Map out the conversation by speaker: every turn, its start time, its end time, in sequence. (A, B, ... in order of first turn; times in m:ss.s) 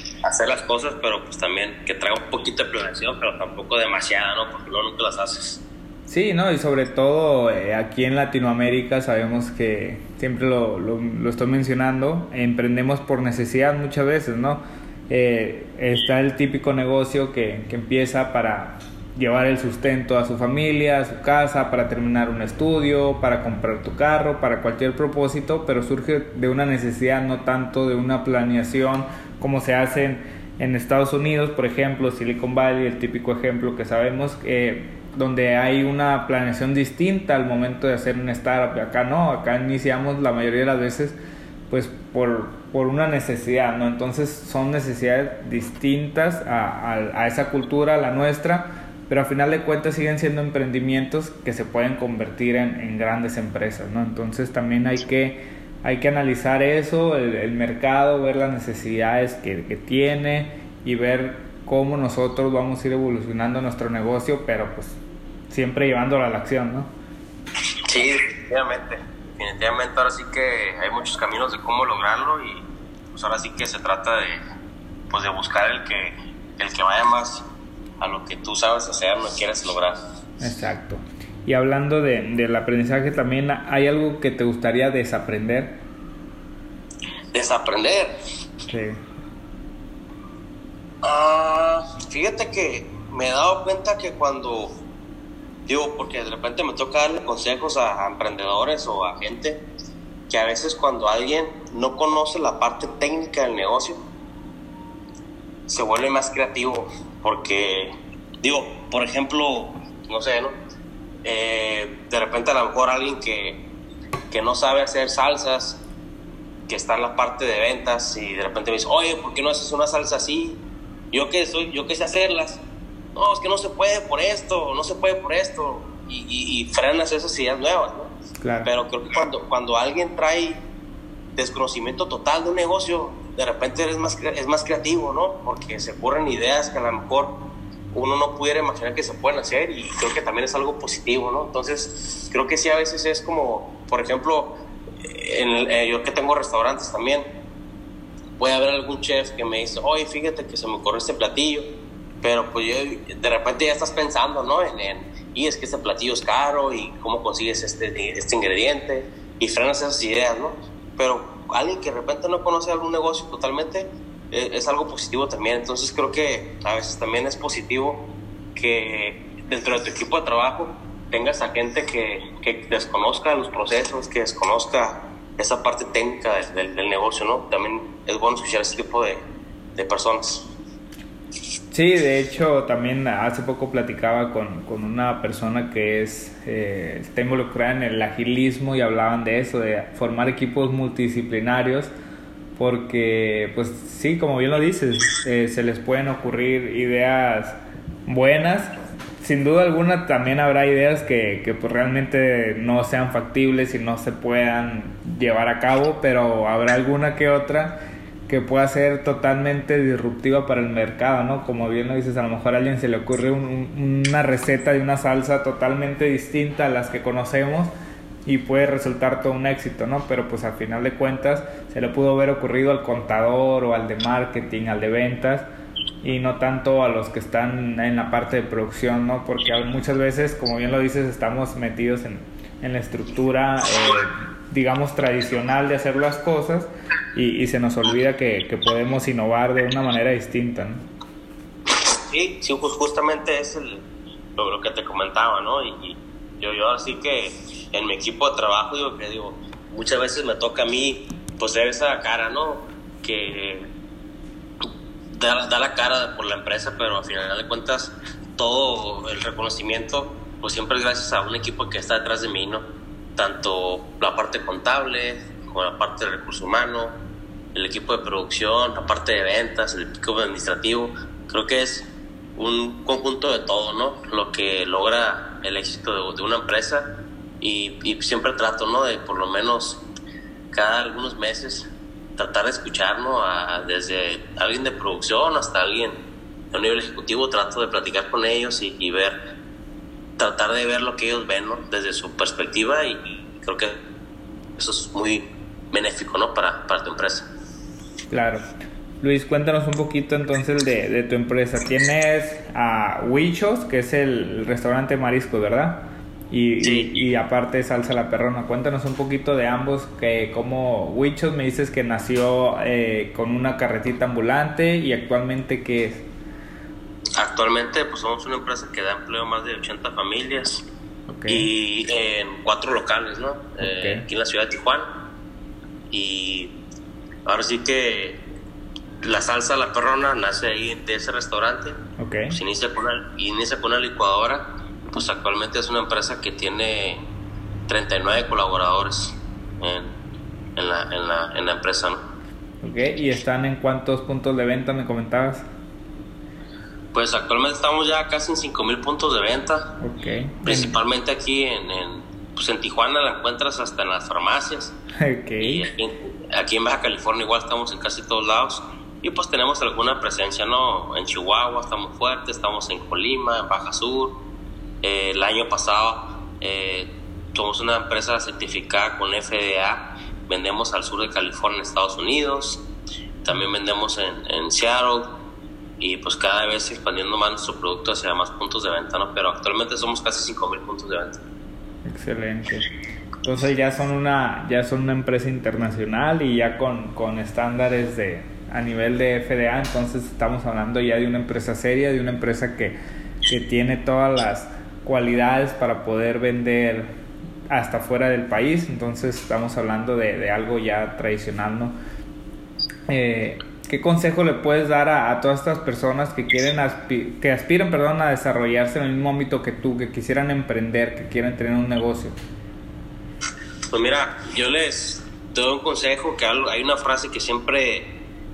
0:00.2-0:05.6 A
0:06.1-0:41.2 B
0:41.7-1:05.0 B
1:05.5-1:06.9 B
1:07.9-1:14.4 A
1:15.1-1:17.4 A
1:18.0-1:20.0 A
1:20.4-1:25.8 B
1:27.3-1:28.2 A
1:28.7-1:29.0 B
1:31.0-1:34.8 A
1:35.7-1:39.6 A
1:40.3-1:44.0 A
1:45.7-1:50.5 A
1:51.2-1:53.6 A
1:54.3-1:55.8 A
1:56.7-2:00.6 A
2:01.1-2:02.6 A
2:03.2-2:08.1 A
2:08.4-2:08.7 B
2:08.6-2:10.6 A
2:11.4-2:17.4 A
2:17.9-2:27.2 A
2:28.4-2:31.6 A
2:32.2-2:59.2 A
2:59.8-3:00.5 A
3:01.7-3:11.9 B
3:12.6-3:37.7 B
3:38.2-3:45.4 B
3:46.0-4:00.9 B
4:02.1-4:03.8 A
4:04.4-4:13.7 A
4:15.1-4:22.6 A
4:23.2-4:27.0 A
4:27.5-4:36.9 A
4:37.4-4:39.8 A
4:40.5-4:46.0 A
4:46.5-4:49.2 A
4:50.2-4:53.8 A
4:54.6-4:57.3 A
4:58.1-4:58.4 B
4:59.0-5:16.1 B
5:06.6-5:06.9 A
5:17.2-5:20.6 A
5:21.1-5:21.5 B
5:21.3-5:24.9 A
5:23.6-5:24.0 B
5:25.9-5:26.5 A
5:27.2-5:28.2 A
5:29.0-5:31.8 A
5:32.0-5:32.4 B
5:32.3-5:37.0 A
5:37.7-5:39.9 A
5:40.6-5:42.0 A
5:42.6-5:45.4 B
5:46.9-5:49.7 A
5:49.8-5:50.8 B
5:50.4-5:54.7 A
5:55.0-5:55.7 B
5:55.4-6:04.2 A
6:04.8-6:12.6 A
6:13.2-6:15.1 A
6:15.8-6:21.2 A
6:21.8-6:22.7 B
6:23.2-6:36.9 B
6:37.5-6:41.7 B
6:42.9-6:52.1 B
6:53.7-6:57.9 A